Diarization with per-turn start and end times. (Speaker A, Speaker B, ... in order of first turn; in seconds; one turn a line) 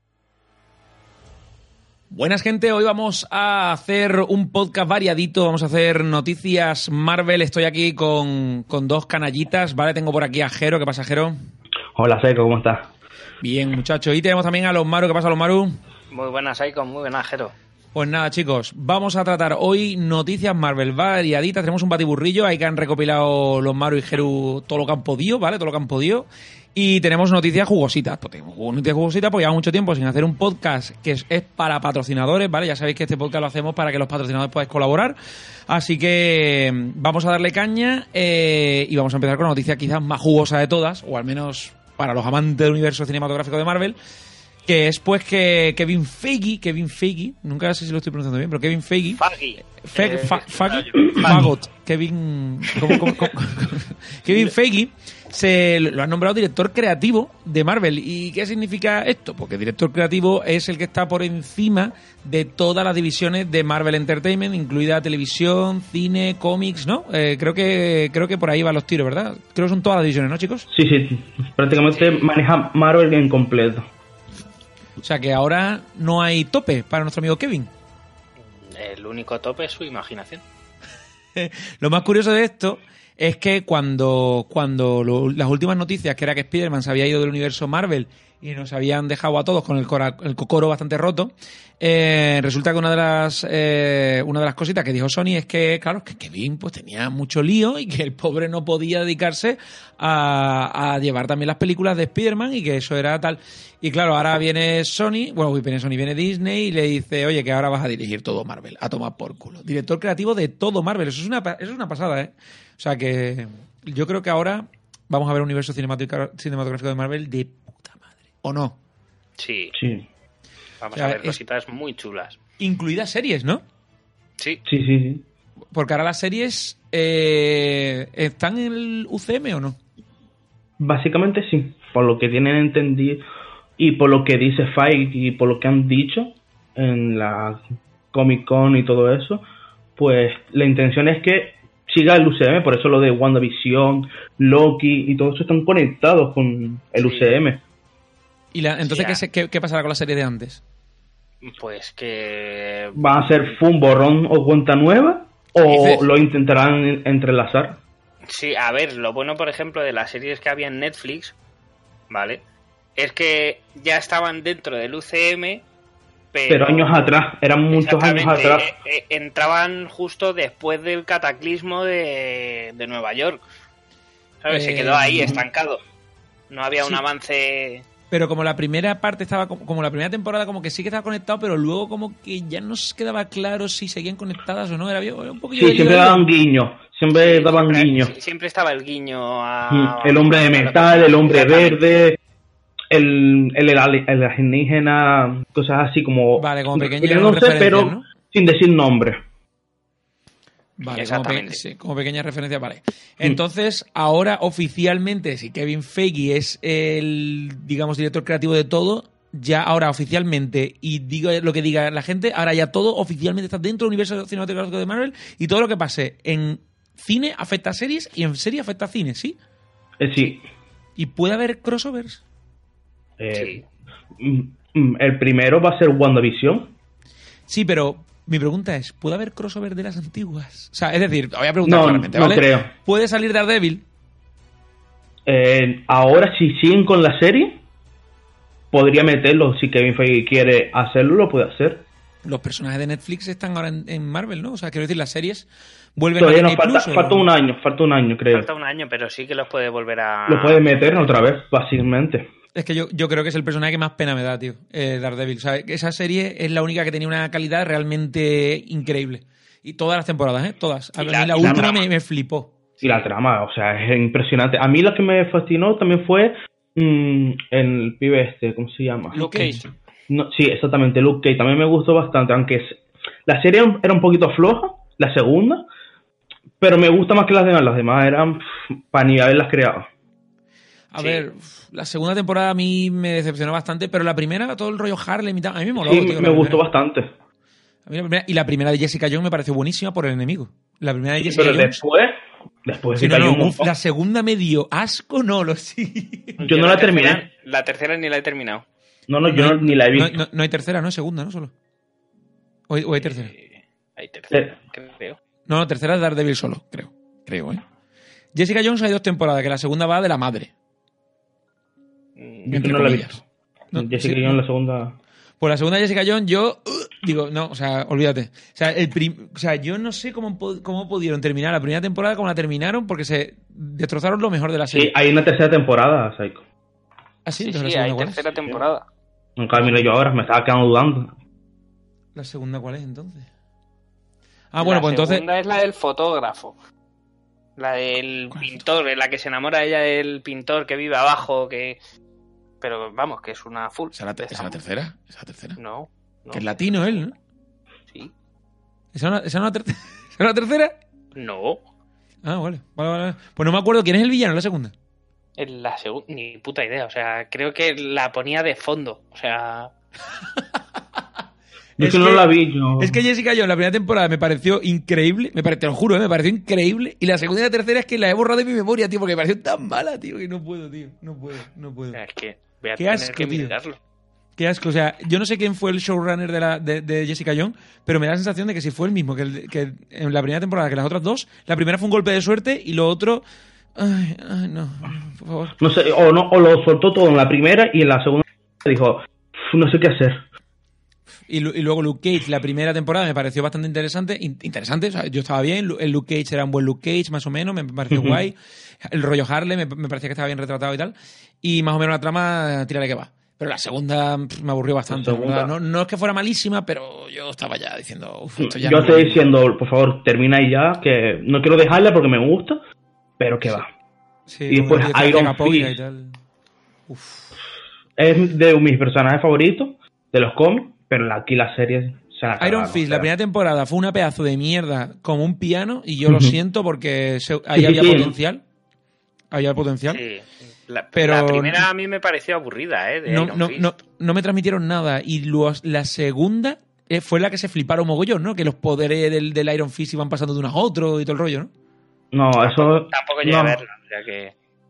Speaker A: 2.1-11.4
Speaker B: 11.9-12.9
Speaker A: 13.4-15.8
Speaker C: 16.1-17.5
Speaker A: 17.9-35.2
Speaker A: 35.7-44.0
Speaker A: 44.7-49.2
Speaker C: 49.2-51.5
Speaker A: 49.8-70.7
Speaker B: 51.2-51.5
Speaker C: 52.7-53.2
Speaker B: 70.7-73.9
Speaker C: 71.9-72.3
Speaker A: 75.0-77.7
Speaker C: 78.7-80.4
Speaker A: 81.3-118.8
Speaker C: 119.4-119.8
Speaker B: 119.8-120.1
Speaker C: 120.8-122.4
Speaker A: 120.9-121.4
Speaker A: 122.6-123.6
Speaker B: 124.7-125.2
Speaker A: 125.7-129.8
Speaker B: 130.8-133.2
Speaker B: 133.8-139.4
Speaker B: 140.0-147.6
Speaker C: 147.0-147.3
Speaker A: 148.5-150.6
Speaker C: 148.8-149.2
Speaker C: 151.4-153.0
Speaker B: 153.0-157.8
Speaker A: 155.6-156.1
Speaker C: 158.3-161.3
Speaker C: 162.1-162.4
Speaker C: 163.0-165.6
Speaker C: 166.3-167.2
Speaker B: 166.5-168.7
Speaker C: 167.7-173.4
Speaker C: 174.4-175.8
Speaker A: 174.5-175.4
Speaker C: 176.5-177.8
Speaker A: 178.1-186.3
Speaker B: 185.5-188.1
Speaker C: 187.2-191.8
Speaker B: 189.7-192.2
Speaker B: 192.9-199.2
Speaker A: 196.4-198.1
Speaker A: 200.8-219.4
Speaker C: 200.9-201.6
Speaker B: 220.0-220.4
Speaker A: 221.0-222.2
Speaker B: 223.2-223.6
Speaker C: 223.3-223.6
Speaker B: 224.2-226.7
Speaker A: 227.5-233.8
Speaker B: 231.6-232.7
Speaker B: 235.3-237.6
Speaker B: 238.7-241.8
Speaker A: 242.2-247.3
Speaker B: 246.2-248.5
Speaker C: 248.3-251.1
Speaker B: 250.3-252.3
Speaker A: 252.6-262.6
Speaker C: 261.0-261.9
Speaker B: 261.4-261.7
Speaker B: 262.8-269.5
Speaker C: 262.8-263.1
Speaker A: 269.1-269.6
Speaker C: 269.3-269.6
Speaker B: 270.1-275.6
Speaker B: 276.6-279.9
Speaker A: 280.9-286.6
Speaker C: 281.0-281.2
Speaker B: 285.8-287.1
Speaker A: 287.9-291.8
Speaker B: 291.2-293.6
Speaker A: 293.0-296.4
Speaker C: 296.4-298.6
Speaker B: 296.4-297.2
Speaker B: 299.1-300.2
Speaker A: 299.3-301.5
Speaker A: 302.7-303.3
Speaker C: 303.0-305.2
Speaker A: 305.5-307.6
Speaker A: 308.3-310.5
Speaker C: 312.2-312.6
Speaker B: 312.5-313.2
Speaker A: 312.5-313.2
Speaker A: 313.7-314.4
Speaker B: 313.7-315.0
Speaker A: 315.4-324.9
Speaker B: 324.7-326.4
Speaker A: 327.3-328.3
Speaker C: 327.4-328.9
Speaker B: 329.4-331.1
Speaker A: 332.1-333.3
Speaker A: 334.5-335.2
Speaker C: 334.6-336.6
Speaker C: 337.6-341.8
Speaker A: 338.3-338.6
Speaker C: 342.6-344.6
Speaker A: 343.9-345.6
Speaker C: 345.6-347.0
Speaker A: 346.3-347.1
Speaker A: 348.9-350.8
Speaker C: 351.1-351.6
Speaker A: 352.2-354.7
Speaker C: 355.4-359.7
Speaker A: 360.4-360.8
Speaker A: 361.8-372.0
Speaker B: 361.8-363.0
Speaker C: 371.9-373.8
Speaker A: 372.8-373.5
Speaker A: 374.4-383.2
Speaker A: 383.8-385.6
Speaker B: 385.6-390.2
Speaker A: 391.3-409.3
Speaker B: 397.9-398.2
Speaker B: 404.9-405.5
Speaker B: 408.4-412.6
Speaker B: 413.2-413.7
Speaker A: 414.3-416.2
Speaker B: 414.5-415.7
Speaker A: 416.9-417.3
Speaker B: 418.0-423.1
Speaker A: 422.4-428.4
Speaker B: 426.1-426.4
Speaker B: 427.6-428.2
Speaker A: 429.3-430.0
Speaker C: 429.9-433.7
Speaker A: 430.9-431.6
Speaker A: 433.1-441.5
Speaker B: 442.1-443.6
Speaker C: 442.4-444.3